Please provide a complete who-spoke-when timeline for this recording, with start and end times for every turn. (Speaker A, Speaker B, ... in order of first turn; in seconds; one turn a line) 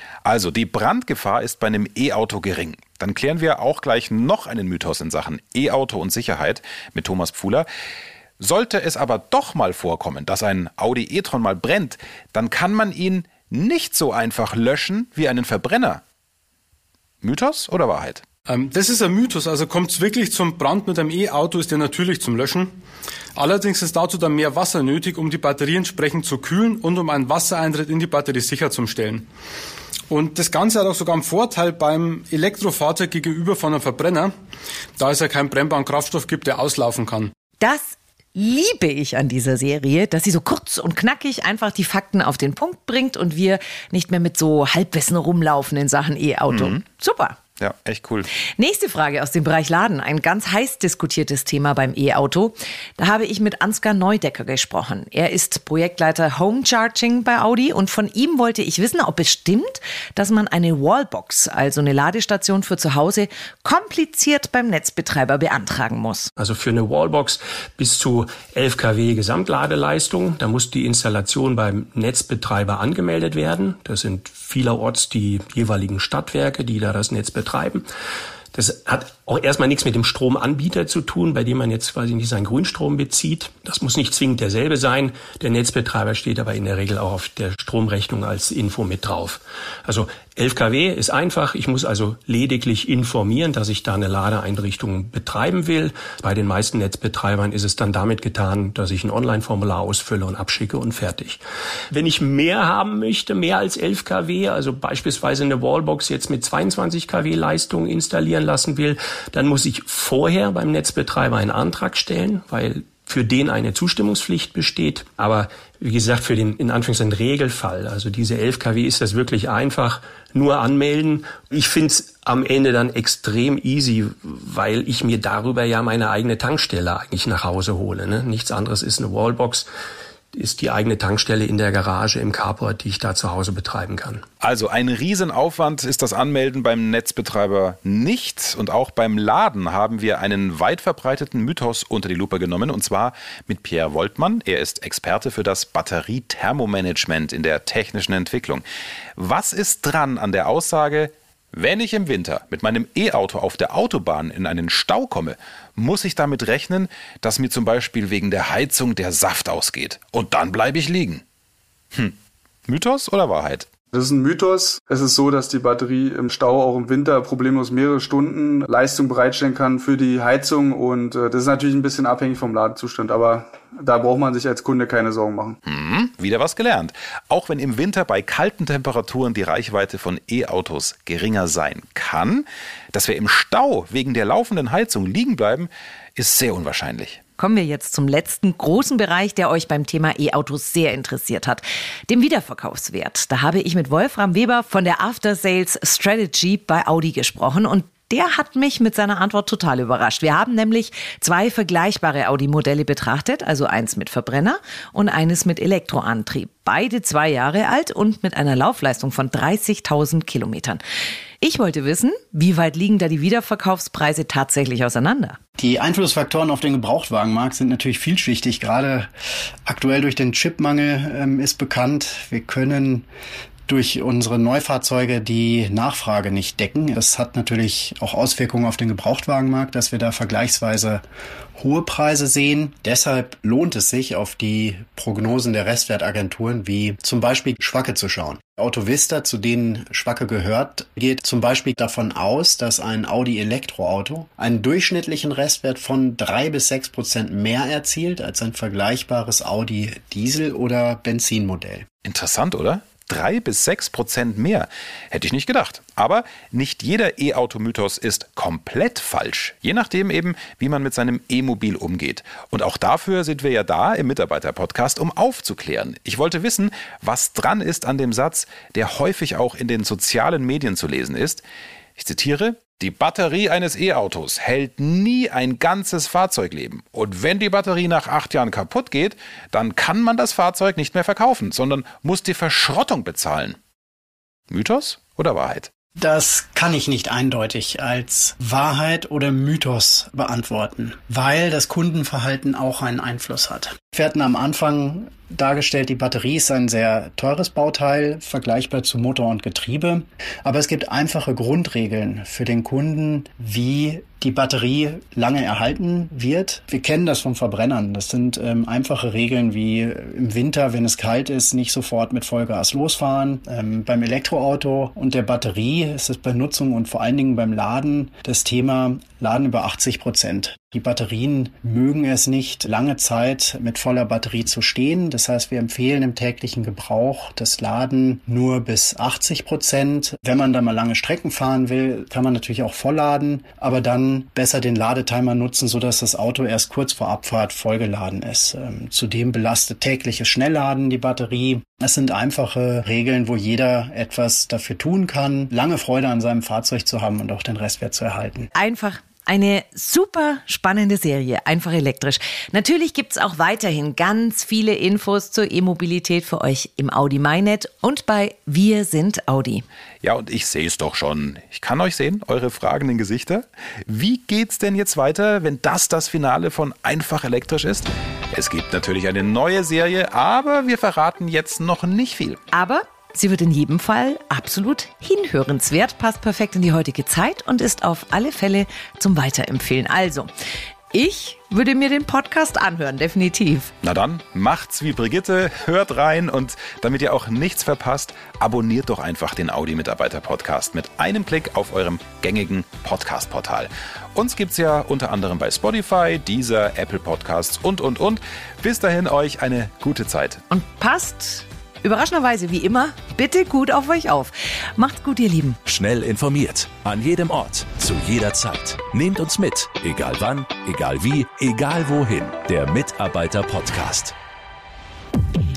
Speaker A: 0.2-7.7
Speaker A: 8.4-16.0
Speaker A: 17.2-18.2
Speaker B: 18.5-22.7
Speaker B: 23.4-29.3
Speaker B: 30.1-34.3
Speaker B: 35.0-37.3
Speaker C: 37.6-47.4
Speaker A: 46.5-46.8
Speaker A: 47.6-48.3
Speaker C: 48.6-66.3
Speaker D: 66.4-77.8
Speaker D: 78.5-101.4
Speaker D: 101.9-129.7
Speaker D: 130.3-134.2
Speaker A: 134.4-148.6
Speaker A: 149.2-161.2
Speaker A: 162.7-163.7
Speaker E: 165.4-175.2
Speaker A: 175.7-187.2
Speaker C: 187.4-210.8
Speaker C: 211.4-215.4
Speaker F: 215.6-219.1
Speaker F: 219.7-223.1
Speaker F: 223.7-231.0
Speaker F: 231.6-251.8
Speaker A: 252.0-271.4
Speaker A: 272.0-283.6
Speaker A: 284.5-285.7
Speaker F: 286.0-348.5
Speaker C: 348.6-359.6
Speaker A: 360.0-372.4
Speaker C: 372.5-380.3
Speaker C: 380.9-383.7
Speaker A: 383.8-400.4
Speaker C: 400.5-405.6
Speaker G: 405.6-414.1